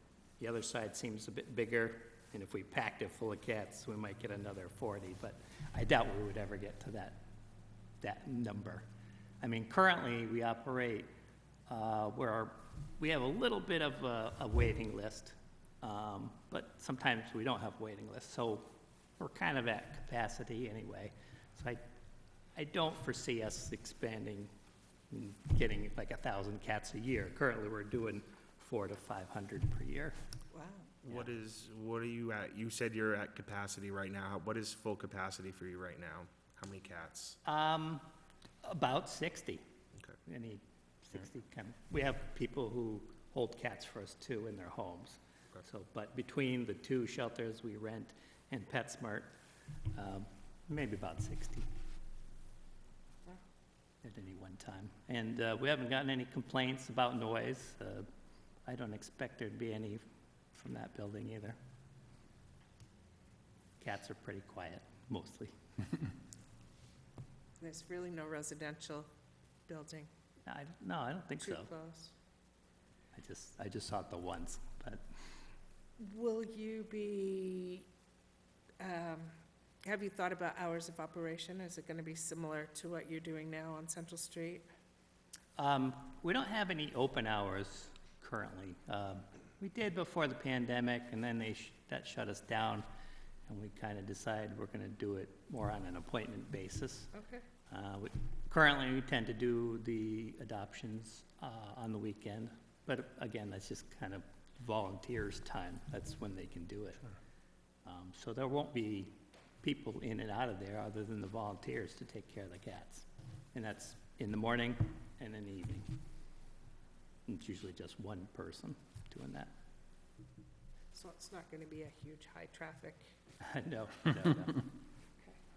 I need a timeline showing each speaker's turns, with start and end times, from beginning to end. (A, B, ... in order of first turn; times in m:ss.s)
0:00.4-0:07.2 A
0:08.0-0:08.9 A
0:09.4-0:11.1 A
0:11.7-0:21.8 A
0:22.6-0:24.5 A
0:25.1-0:30.2 A
0:30.5-0:30.9 B
0:31.0-0:37.4 C
0:37.4-0:38.1 A
0:38.6-0:39.6 A
0:40.2-0:49.3 A
0:49.9-0:51.7 A
0:54.0-0:58.1 A
0:58.7-1:01.6 A
1:03.8-1:05.6 A
1:07.6-1:09.1 B
1:09.7-1:10.1 B
1:10.5-1:11.7 A
1:11.4-1:12.1 B
1:13.2-1:15.0 A
1:16.0-1:17.9 B
1:18.8-1:24.7 B
1:25.6-1:32.9 A
1:33.5-1:37.1 A
1:37.1-1:37.4 B
1:37.7-1:47.1 A
1:47.8-1:56.0 A
1:57.3-1:59.5 A
2:00.9-2:03.1 B
2:03.4-2:04.7 A